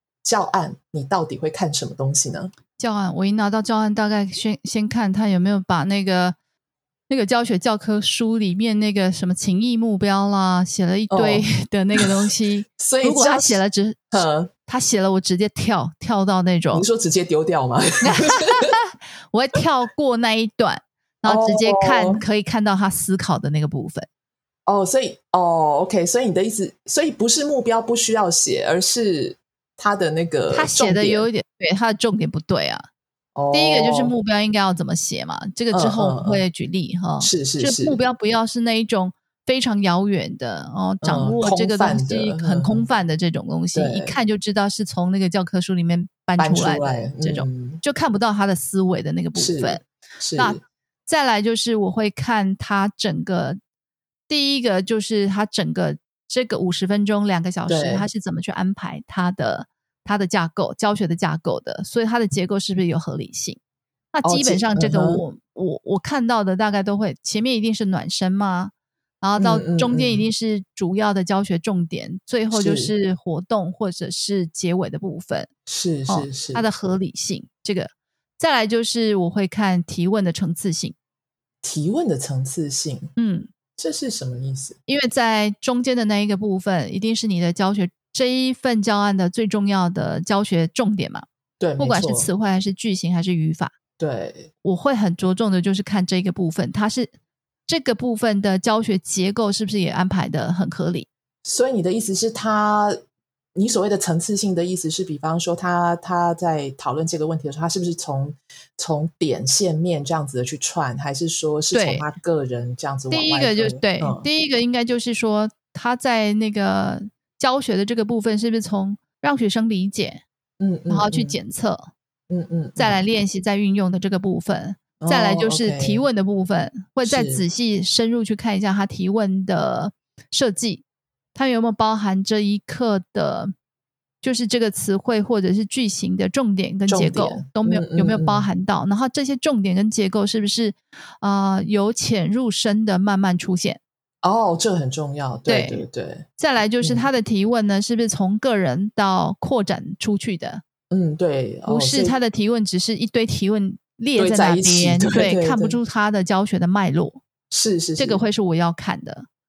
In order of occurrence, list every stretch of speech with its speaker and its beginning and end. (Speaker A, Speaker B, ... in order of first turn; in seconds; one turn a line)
Speaker A: 0.2-2.5
Speaker B: 2.8-6.3
Speaker B: 7.1-16.9
Speaker A: 11.1-12.3
Speaker A: 12.8-14.5
Speaker A: 16.7-18.7
Speaker B: 18.0-24.1
Speaker A: 21.2-22.2
Speaker A: 24.6-31.3
Speaker B: 30.5-32.9
Speaker A: 33.4-34.1
Speaker B: 33.5-49.8
Speaker A: 35.7-36.4
Speaker A: 37.2-38.0
Speaker A: 41.0-42.9
Speaker A: 43.7-44.2
Speaker A: 46.4-47.8
Speaker A: 49.4-50.6
Speaker B: 50.4-53.6
Speaker B: 54.3-63.6
Speaker A: 57.7-58.1
Speaker B: 64.1-75.5
Speaker A: 64.2-65.2
Speaker A: 69.4-70.3
Speaker A: 72.5-72.9
Speaker A: 75.7-76.6
Speaker B: 76.1-80.9
Speaker A: 81.6-83.1
Speaker B: 83.2-83.5
Speaker A: 83.8-84.8
Speaker B: 84.9-91.2
Speaker A: 91.6-92.3
Speaker B: 91.8-93.7
Speaker A: 94.0-94.5
Speaker B: 94.6-97.1
Speaker B: 97.7-101.1
Speaker A: 101.4-103.0
Speaker A: 103.5-114.2
Speaker B: 111.7-112.1
Speaker B: 113.1-120.2
Speaker A: 120.6-121.4
Speaker B: 120.9-121.9
Speaker A: 122.3-123.0
Speaker B: 122.8-133.5
Speaker A: 125.0-126.0
Speaker A: 127.0-127.4
Speaker B: 134.2-143.8
Speaker A: 136.9-138.5
Speaker A: 144.2-146.3
Speaker B: 145.5-145.8
Speaker B: 146.4-150.6
Speaker A: 146.8-147.1
Speaker A: 150.9-152.2
Speaker B: 151.7-157.2
Speaker A: 154.2-155.8
Speaker A: 157.5-158.2
Speaker B: 158.0-159.3